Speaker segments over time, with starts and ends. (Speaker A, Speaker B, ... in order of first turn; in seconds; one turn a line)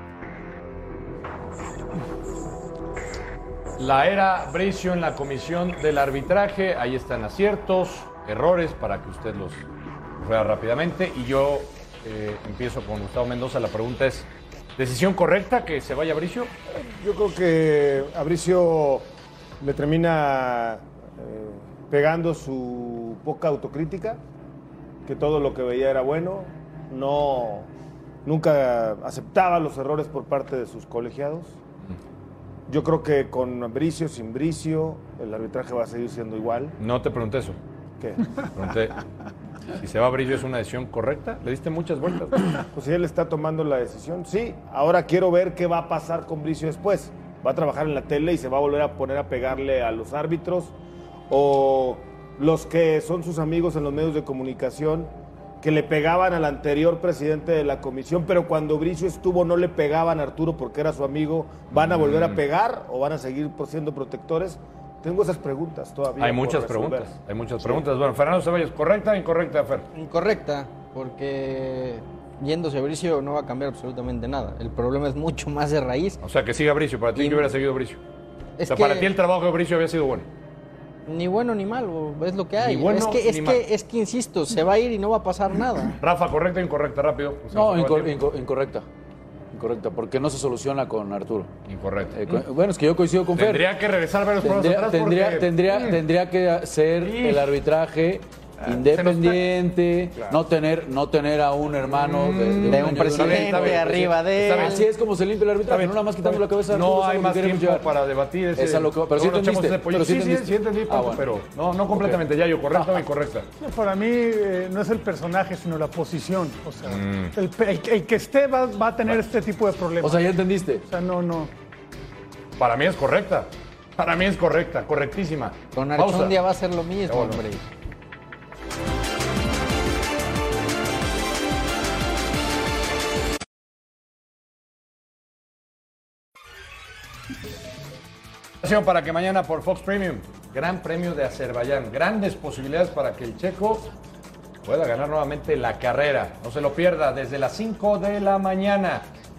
Speaker A: 3.8-9.7
Speaker A: 10.2-16.5
Speaker B: 16.7-24.2
Speaker B: 25.0-27.7
Speaker B: 28.2-31.6
Speaker B: 32.7-36.8
Speaker A: 36.8-37.6
Speaker B: 38.0-38.2
Speaker A: 38.5-39.0
Speaker A: 39.8-42.6
Speaker B: 42.7-50.7
Speaker B: 51.3-67.8
Speaker A: 61.7-62.4
Speaker A: 66.2-69.9
Speaker C: 69.9-76.2
Speaker A: 76.2-78.0
Speaker C: 77.2-77.5
Speaker C: 78.6-79.1
Speaker A: 78.6-80.3
Speaker C: 81.0-86.0
Speaker A: 82.6-83.7
Speaker A: 86.0-88.2
Speaker D: 87.5-88.8
Speaker D: 89.5-91.5
Speaker A: 91.7-92.5
Speaker D: 92.1-93.7
Speaker A: 93.3-96.0
Speaker D: 94.4-107.9
Speaker A: 97.0-97.5
Speaker A: 98.6-99.4
Speaker A: 101.8-104.8
Speaker C: 102.7-104.8
Speaker A: 105.7-113.5
Speaker D: 108.6-111.2
Speaker D: 111.9-113.0
Speaker E: 113.6-121.5
Speaker A: 116.8-117.3
Speaker D: 120.0-120.8
Speaker A: 122.6-126.4
Speaker C: 125.7-127.6
Speaker A: 127.0-127.4
Speaker A: 138.6-143.9
Speaker A: 144.6-149.1